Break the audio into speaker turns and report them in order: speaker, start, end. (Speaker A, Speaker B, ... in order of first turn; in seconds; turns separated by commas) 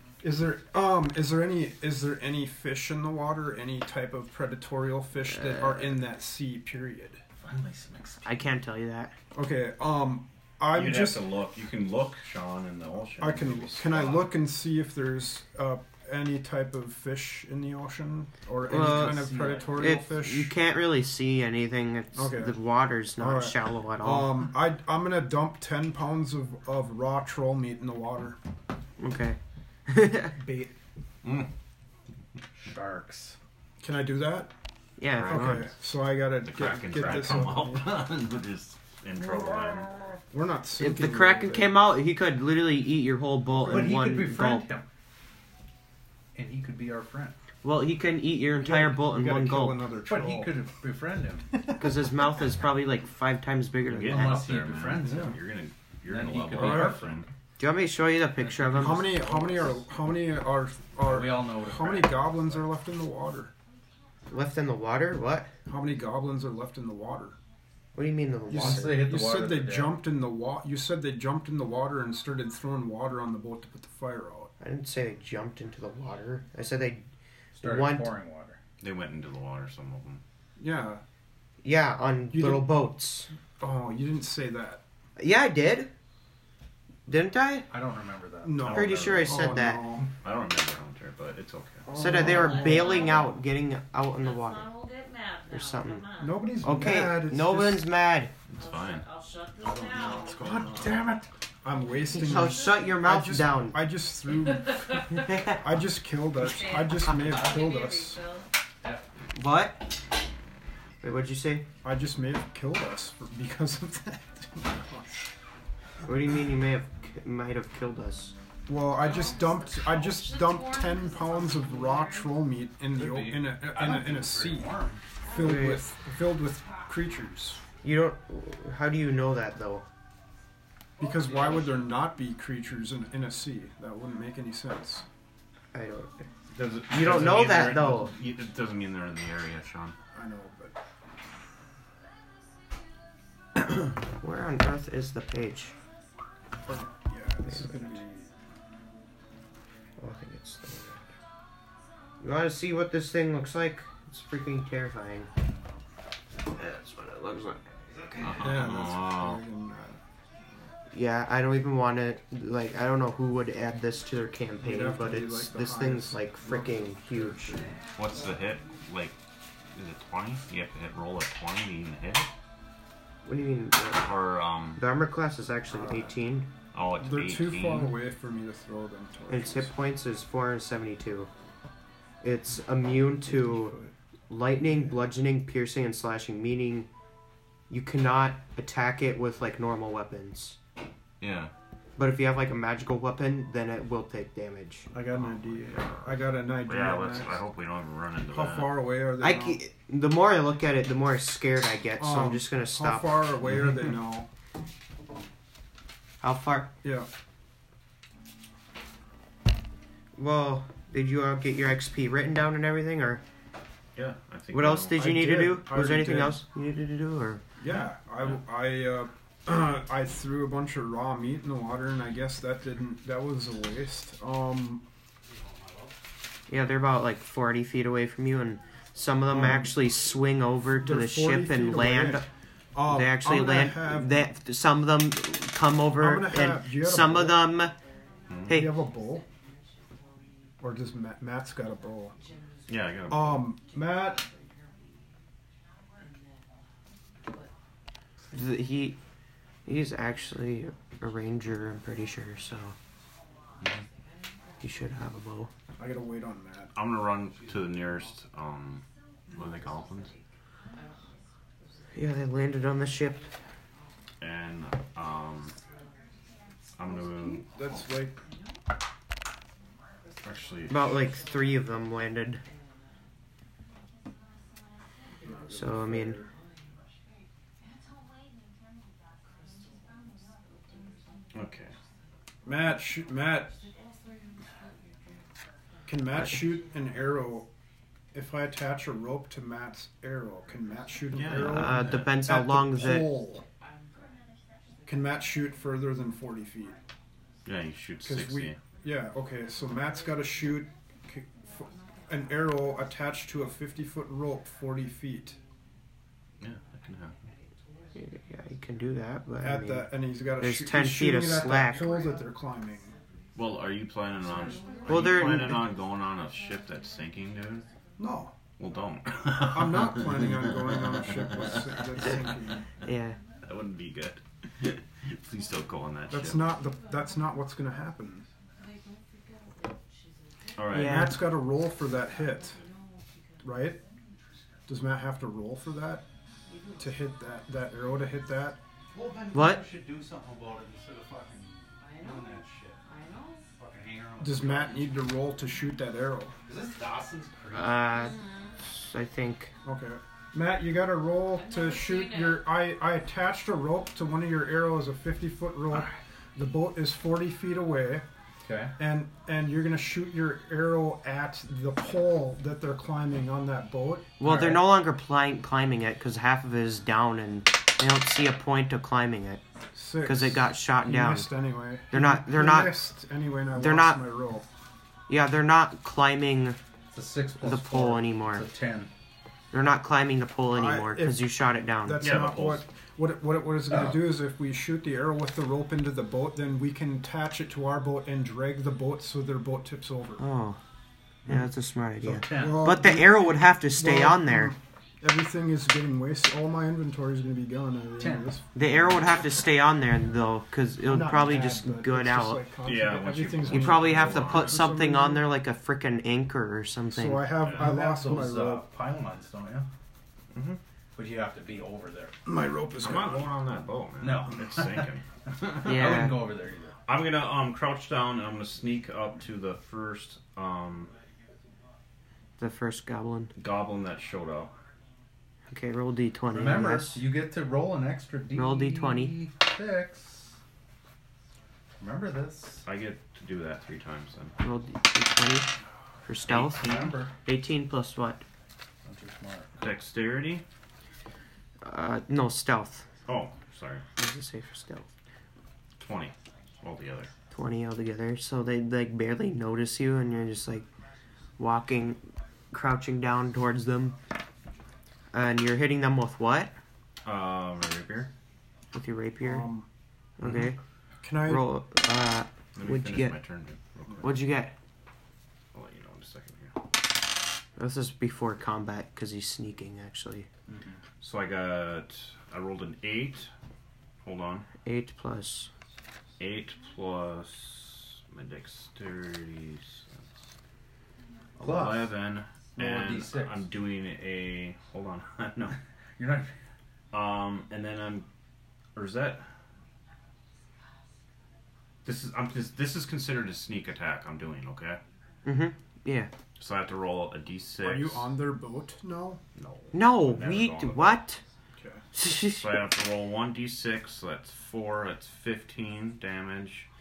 Speaker A: 0.2-7.2, Speaker B: 5.3-6.0, Speaker C: 7.4-8.3, Speaker B: 8.2-9.1, Speaker A: 9.3-11.2, Speaker D: 10.7-14.3, Speaker A: 13.2-20.5, Speaker B: 18.7-24.5, Speaker C: 18.7-20.0, Speaker A: 22.1-22.6, Speaker A: 23.2-28.4, Speaker B: 29.0-30.4, Speaker A: 30.4-30.7, Speaker D: 31.2-31.5, Speaker C: 32.5-33.4, Speaker A: 33.8-34.5, Speaker B: 35.0-35.7, Speaker D: 35.2-35.6, Speaker A: 35.2-38.0, Speaker D: 36.4-39.9, Speaker C: 37.0-37.3, Speaker A: 40.3-41.8, Speaker B: 40.8-44.7, Speaker A: 43.5-44.0, Speaker C: 43.7-44.9, Speaker C: 46.3-47.4, Speaker B: 47.6-49.9, Speaker A: 48.6-50.6, Speaker C: 50.0-51.5, Speaker A: 51.5-52.1, Speaker B: 51.8-54.4, Speaker D: 53.9-57.3, Speaker C: 54.0-55.4, Speaker A: 55.0-55.4, Speaker C: 56.1-57.2, Speaker A: 56.5-57.0, Speaker B: 57.6-59.1, Speaker C: 58.4-59.8, Speaker A: 58.8-63.5, Speaker C: 61.0-62.6, Speaker B: 64.3-65.5, Speaker A: 65.7-67.4, Speaker B: 67.9-69.0, Speaker C: 68.5-70.0, Speaker A: 68.5-74.5, Speaker B: 74.6-77.0, Speaker C: 77.5-78.6, Speaker B: 77.6-78.1, Speaker D: 78.8-80.2, Speaker A: 80.6-81.0, Speaker B: 81.6-83.3, Speaker A: 82.3-82.7, Speaker A: 83.6-84.8, Speaker B: 85.2-85.9, Speaker B: 87.1-87.7, Speaker C: 87.7-89.0, Speaker A: 88.4-90.1, Speaker D: 88.6-89.3, Speaker B: 88.6-89.8, Speaker D: 90.2-92.5, Speaker A: 91.8-93.3, Speaker B: 91.9-94.7, Speaker E: 92.4-93.2, Speaker E: 94.2-96.5, Speaker B: 95.5-96.1, Speaker A: 96.2-97.8, Speaker B: 96.6-98.3, Speaker D: 98.5-99.1, Speaker E: 98.6-100.6, Speaker A: 99.6-101.1, Speaker C: 100.3-101.3, Speaker A: 101.6-108.2, Speaker E: 102.0-102.9, Speaker B: 102.1-103.8, Speaker E: 104.7-105.3, Speaker B: 105.1-105.6, Speaker E: 106.4-108.5, Speaker B: 109.3-109.8, Speaker B: 111.0-111.7, Speaker A: 111.8-115.2, Speaker B: 116.0-118.3, Speaker A: 118.7-127.6, Speaker E: 119.0-122.4, Speaker C: 122.9-125.0, Speaker B: 125.4-125.8, Speaker B: 127.8-129.8, Speaker A: 131.0-135.0, Speaker C: 131.1-131.7, Speaker B: 135.7-136.3, Speaker D: 136.5-140.0, Speaker B: 136.9-138.1, Speaker A: 140.1-140.8, Speaker B: 144.1-145.7, Speaker A: 146.6-148.3, Speaker B: 147.5-148.0, Speaker B: 150.0-151.1, Speaker B: 152.2-155.3, Speaker D: 156.6-157.5, Speaker B: 156.8-157.2, Speaker C: 158.1-158.5, Speaker D: 158.2-159.4, Speaker A: 158.4-160.7, Speaker B: 160.9-167.6, Speaker A: 164.6-167.8, Speaker D: 167.9-169.2, Speaker D: 169.7-172.3, Speaker B: 173.2-174.1, Speaker D: 173.9-174.8, Speaker B: 174.8-176.5, Speaker A: 175.7-176.1, Speaker D: 176.7-178.0, Speaker A: 177.0-179.7, Speaker B: 179.3-181.3, Speaker B: 182.2-183.7, Speaker A: 183.2-183.9, Speaker B: 184.3-186.9, Speaker A: 184.8-185.0, Speaker B: 187.7-190.6, Speaker D: 191.2-191.5, Speaker B: 192.0-194.9, Speaker A: 194.9-197.4, Speaker D: 195.1-198.8, Speaker A: 198.3-199.6, Speaker B: 199.2-203.3, Speaker A: 202.0-204.3, Speaker B: 206.2-206.7, Speaker A: 206.8-207.1, Speaker B: 210.2-213.2, Speaker D: 213.9-214.9, Speaker B: 214.5-217.4, Speaker A: 214.9-216.4, Speaker A: 217.6-224.8, Speaker C: 225.3-225.9, Speaker B: 226.5-232.3, Speaker A: 229.3-229.7, Speaker A: 230.8-234.2, Speaker B: 232.9-237.7, Speaker A: 236.0-237.4, Speaker E: 238.2-240.6, Speaker D: 238.3-238.6, Speaker A: 238.4-239.2, Speaker B: 238.5-238.8, Speaker A: 240.6-242.1, Speaker E: 242.1-245.1, Speaker D: 242.7-243.5, Speaker A: 243.1-244.2, Speaker E: 246.0-247.5, Speaker B: 248.3-249.0, Speaker B: 249.6-252.8, Speaker E: 254.0-255.0, Speaker B: 254.6-255.5, Speaker A: 255.8-256.7, Speaker D: 256.7-260.1, Speaker E: 259.3-263.9, Speaker B: 261.9-263.3, Speaker D: 264.2-265.6, Speaker E: 265.5-266.5, Speaker D: 266.7-267.5, Speaker A: 266.9-268.2, Speaker E: 267.7-268.6, Speaker E: 270.0-271.8, Speaker D: 270.2-271.1, Speaker B: 270.7-272.4, Speaker E: 272.4-272.9, Speaker E: 275.1-275.6, Speaker A: 275.2-276.3, Speaker B: 275.5-276.2, Speaker E: 276.2-276.8, Speaker E: 279.2-281.6, Speaker D: 281.3-281.7, Speaker A: 282.4-283.6, Speaker E: 283.1-287.2, Speaker A: 285.9-287.5, Speaker A: 288.1-293.4, Speaker D: 291.1-292.2, Speaker B: 291.3-293.1, Speaker E: 293.6-295.5, Speaker A: 294.9-296.8, Speaker D: 297.4-298.6, Speaker A: 298.0-305.4, Speaker E: 301.6-302.9, Speaker D: 306.4-307.2, Speaker E: 306.8-308.9, Speaker B: 307.9-312.0, Speaker A: 309.4-312.9, Speaker E: 311.6-313.8, Speaker D: 313.3-317.7, Speaker E: 314.4-318.0, Speaker B: 314.9-315.7, Speaker A: 318.0-318.3, Speaker D: 318.6-322.6, Speaker A: 319.4-322.7, Speaker B: 322.8-323.2, Speaker D: 323.4-326.5, Speaker A: 326.1-328.2, Speaker E: 326.3-327.2, Speaker E: 328.6-330.7, Speaker D: 330.6-331.1, Speaker B: 330.7-331.2, Speaker A: 330.7-332.6, Speaker E: 331.6-333.8, Speaker A: 333.4-333.8, Speaker A: 334.7-336.1, Speaker E: 336.4-337.6, Speaker A: 336.8-338.6, Speaker C: 338.9-342.8, Speaker B: 339.3-339.6, Speaker E: 341.8-343.5, Speaker C: 343.5-345.2, Speaker A: 344.2-346.4, Speaker C: 346.4-347.9, Speaker B: 347.5-349.5, Speaker E: 347.9-348.5, Speaker A: 349.6-358.1, Speaker E: 351.3-352.5, Speaker C: 358.4-358.8, Speaker A: 358.8-364.1, Speaker B: 364.2-369.4, Speaker C: 364.2-364.6, Speaker A: 369.7-374.4, Speaker B: 370.0-371.3, Speaker B: 371.9-372.8, Speaker B: 373.5-374.0, Speaker B: 375.1-376.6, Speaker C: 376.9-378.9, Speaker B: 377.4-378.4, Speaker B: 379.5-382.2, Speaker A: 380.5-381.3, Speaker A: 381.8-390.2, Speaker D: 382.0-382.6, Speaker B: 390.2-390.6, Speaker B: 391.2-394.5, Speaker C: 392.0-392.8, Speaker A: 392.3-399.1, Speaker C: 398.0-398.4, Speaker B: 398.5-402.4, Speaker A: 400.8-405.2, Speaker D: 402.6-404.6, Speaker B: 403.5-407.3, Speaker A: 406.9-408.7, Speaker D: 407.4-407.7, Speaker C: 407.5-409.7, Speaker D: 410.3-410.6, Speaker C: 410.9-412.1, Speaker A: 412.2-413.4, Speaker D: 412.8-415.8, Speaker C: 414.0-416.8, Speaker B: 415.6-416.2, Speaker D: 416.9-420.9, Speaker B: 422.4-423.3, Speaker D: 423.4-424.5, Speaker B: 425.5-427.0, Speaker C: 426.3-430.4, Speaker B: 428.3-429.1, Speaker C: 431.8-432.6, Speaker D: 432.6-434.3, Speaker B: 434.4-435.5, Speaker B: 436.0-438.2, Speaker D: 436.3-436.9, Speaker C: 436.5-437.1, Speaker C: 438.8-439.5, Speaker D: 439.6-440.4, Speaker B: 441.6-442.9, Speaker D: 443.1-443.8, Speaker B: 444.0-444.9, Speaker D: 445.8-447.1, Speaker B: 447.3-450.7, Speaker B: 451.4-452.0, Speaker B: 452.5-454.0, Speaker B: 455.1-456.5, Speaker D: 457.0-458.1, Speaker B: 458.7-459.5, Speaker A: 459.2-459.7, Speaker B: 460.2-460.6, Speaker A: 461.0-461.5, Speaker B: 461.2-463.1, Speaker D: 462.5-464.2, Speaker B: 464.0-464.5, Speaker D: 465.5-466.6, Speaker B: 467.6-470.3, Speaker C: 470.5-470.8, Speaker D: 471.0-473.3, Speaker D: 474.0-474.5, Speaker B: 474.6-475.5, Speaker D: 476.2-479.9, Speaker C: 481.4-481.9, Speaker D: 481.4-485.6, Speaker C: 482.6-483.5, Speaker C: 486.0-486.4, Speaker D: 486.9-488.1, Speaker D: 488.7-489.3, Speaker D: 491.8-494.8, Speaker B: 495.2-496.1, Speaker D: 496.4-498.1, Speaker A: 497.6-499.2, Speaker D: 499.4-501.0, Speaker B: 499.7-501.2, Speaker A: 501.6-501.8, Speaker B: 501.9-502.6, Speaker D: 502.4-506.7